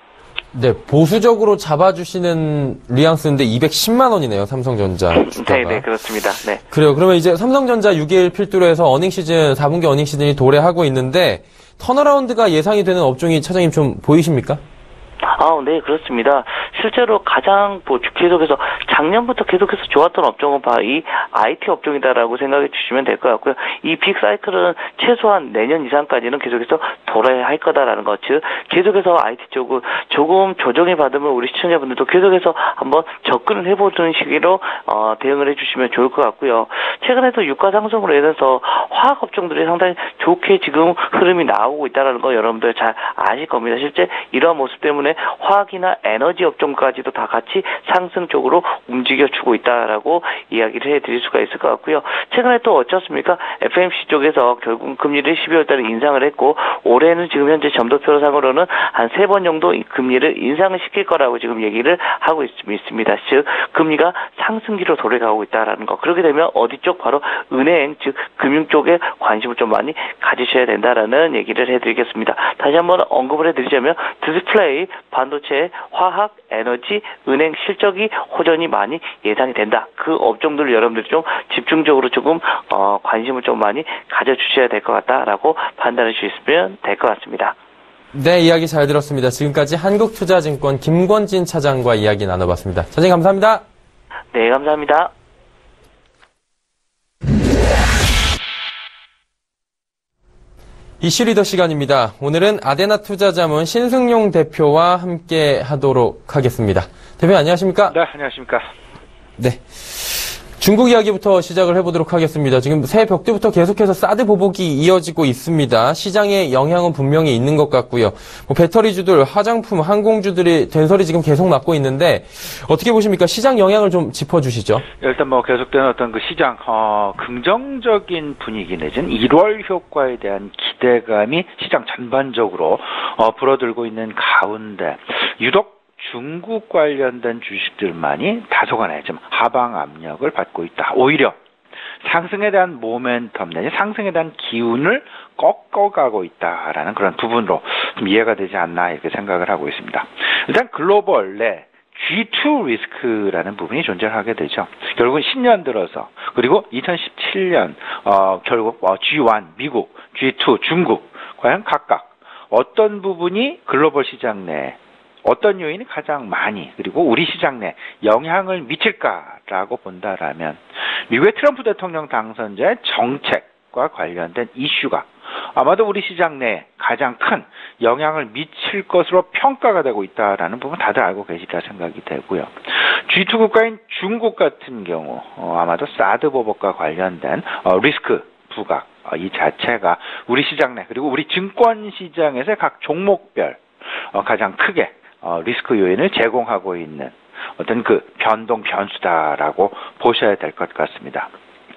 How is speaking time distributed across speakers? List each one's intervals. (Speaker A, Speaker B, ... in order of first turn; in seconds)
Speaker A: 0.5-5.9, 6.7-14.6, 88.1-93.6, 101.0-108.0, 109.4-124.8
Speaker B: 5.1-6.6, 15.3-87.6, 94.3-95.1
Speaker C: 107.9-108.7, 125.0-141.4, 142.0-201.3